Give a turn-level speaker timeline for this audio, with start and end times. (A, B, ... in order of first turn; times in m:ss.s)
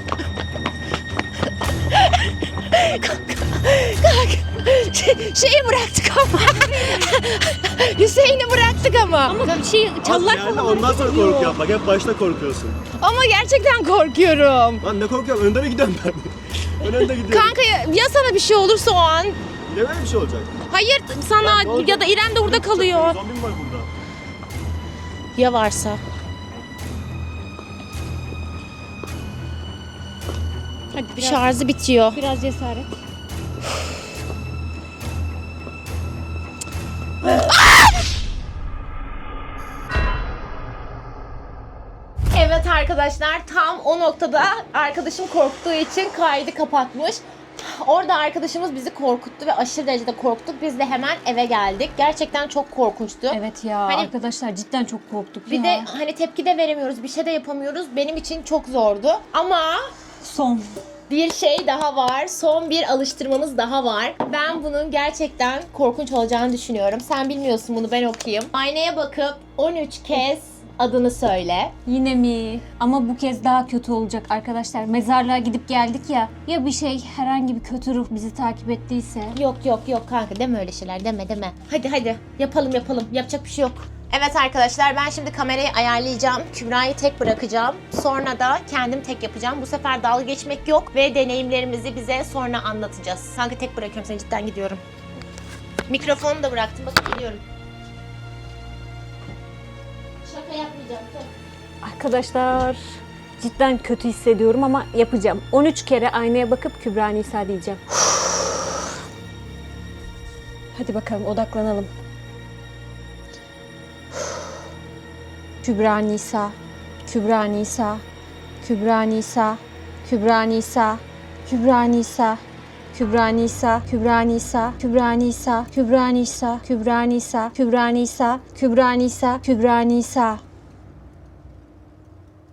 0:01.9-0:09.6 A
0:06.6-0:07.1 B
0:09.3-0:11.2 B
0:10.0-0:12.8 C
0:11.1-0:11.6 A
0:13.0-0:14.8 A
0:14.8-0:17.5 C
0:16.9-0:19.4 A
0:19.7-0:20.5 C
0:20.7-0:23.2 A
0:21.4-0:23.9 C
0:25.4-0:26.0 A
0:30.9-0:31.5 B
0:31.2-0:32.2 A
0:32.1-0:32.9 B
0:42.3-0:54.1 A
0:53.3-0:55.9 B
0:55.5-0:59.9 A
1:00.2-1:00.7 B
1:01.1-1:11.7 A
1:11.9-1:19.4 B
1:19.3-1:34.8 A
1:35.9-1:37.4 A
1:40.2-1:41.3 A
1:41.8-1:42.8 B
1:43.4-1:48.7 B
1:50.7-1:51.9 B
1:55.6-1:56.6 B
1:57.1-1:58.0 B
1:58.6-2:02.4 B
2:02.9-2:10.4 B